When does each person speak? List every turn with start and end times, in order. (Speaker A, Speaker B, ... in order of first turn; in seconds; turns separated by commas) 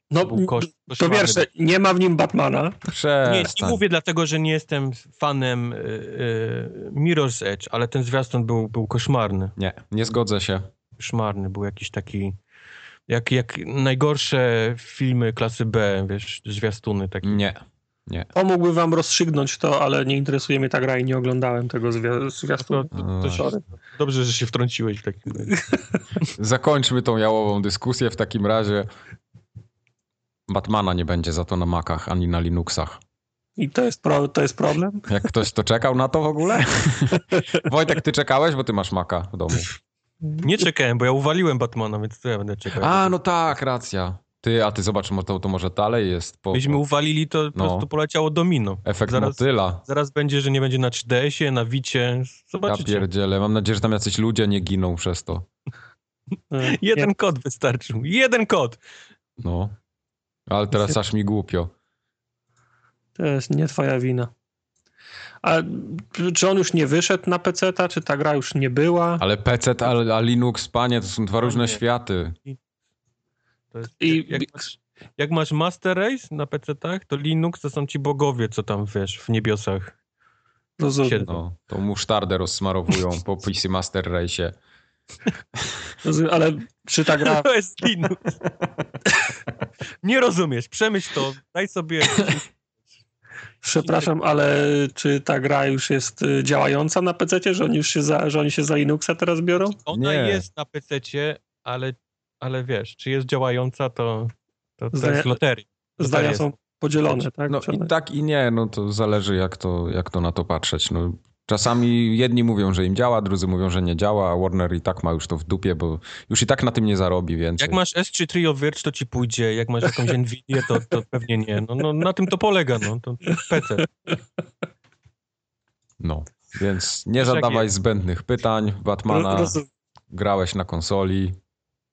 Speaker A: 0.1-2.8, Speaker B: 0.2-1.4, Speaker C: 2.9-3.8, Speaker B: 3.2-9.5, Speaker C: 9.6-10.7, Speaker B: 11.0-12.3, Speaker B: 13.1-17.4, Speaker C: 17.2-18.3, Speaker A: 18.3-23.6, Speaker B: 22.6-25.6, Speaker C: 22.9-23.5, Speaker C: 26.4-28.9, Speaker C: 30.5-33.0, Speaker A: 33.6-35.1, Speaker C: 35.1-39.7, Speaker B: 40.4-43.2, Speaker C: 42.8-46.8, Speaker B: 46.5-53.1, Speaker C: 47.5-47.9, Speaker C: 48.8-49.8, Speaker C: 52.7-55.5, Speaker A: 56.5-57.1, Speaker B: 56.6-58.8, Speaker C: 59.4-59.8, Speaker C: 60.5-61.7, Speaker A: 63.2-64.3, Speaker A: 65.4-69.2, Speaker C: 69.2-72.3, Speaker B: 71.4-71.8, Speaker B: 73.7-79.9, Speaker A: 74.0-74.6, Speaker A: 80.8-81.3, Speaker B: 81.0-81.4, Speaker C: 81.2-84.5, Speaker A: 86.0-87.5, Speaker B: 87.1-88.3, Speaker B: 90.0-92.5, Speaker A: 93.6-99.8, Speaker B: 93.8-94.1, Speaker B: 99.8-106.5, Speaker C: 99.9-100.5, Speaker A: 104.9-105.4, Speaker A: 106.0-107.9, Speaker C: 107.5-117.8, Speaker B: 117.6-123.9, Speaker C: 126.0-131.4, Speaker B: 127.2-127.7, Speaker A: 129.1-129.7